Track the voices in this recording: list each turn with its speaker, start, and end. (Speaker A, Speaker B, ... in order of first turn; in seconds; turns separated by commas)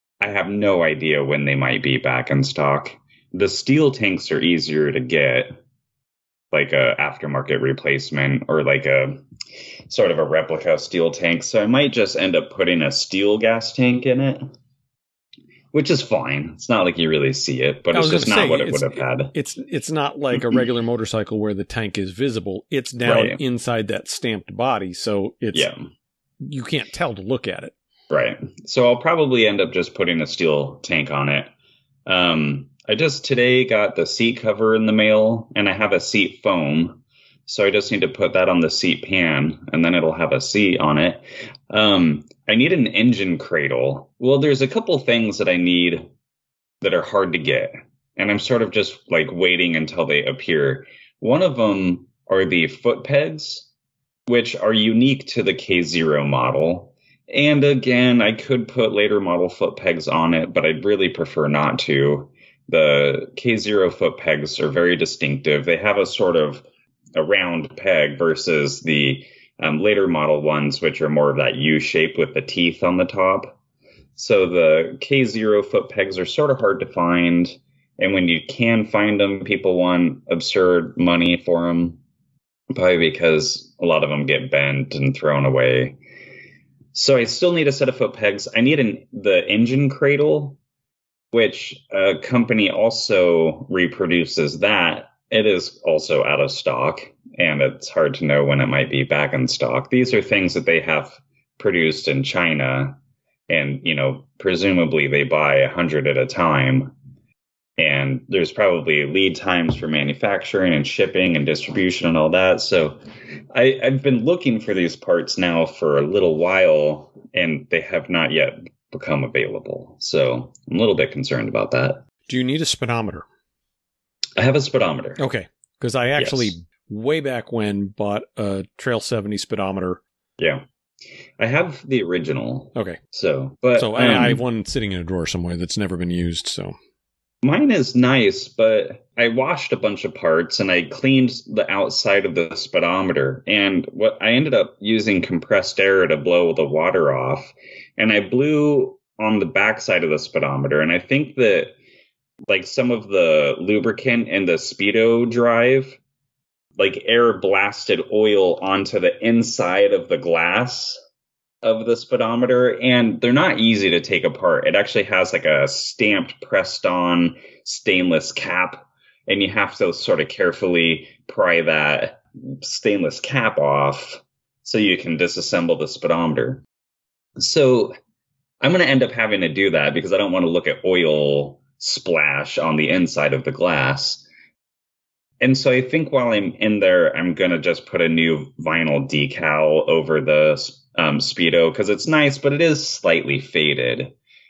Speaker A: 0.2-5.5, Speaker A: 6.5-9.2, Speaker A: 9.9-14.4, Speaker A: 15.7-19.3, Speaker B: 17.9-25.7, Speaker A: 20.3-20.6, Speaker A: 23.1-23.4, Speaker A: 25.5-25.9, Speaker B: 26.4-27.7, Speaker A: 28.1-31.5, Speaker A: 32.1-46.1, Speaker A: 46.8-53.7, Speaker A: 54.3-73.6, Speaker A: 74.2-82.0, Speaker A: 82.7-86.0, Speaker A: 86.9-90.6, Speaker A: 91.3-103.0, Speaker A: 103.5-106.9, Speaker A: 107.8-122.0, Speaker B: 122.3-123.2, Speaker A: 124.4-125.2, Speaker B: 125.2-130.0, Speaker A: 126.2-126.5, Speaker A: 130.4-130.7, Speaker A: 131.4-134.4, Speaker B: 133.8-136.8, Speaker A: 137.4-151.7, Speaker A: 152.5-156.0, Speaker A: 156.8-161.0, Speaker A: 161.6-176.6, Speaker A: 177.4-177.9, Speaker A: 178.6-184.3, Speaker A: 185.4-194.1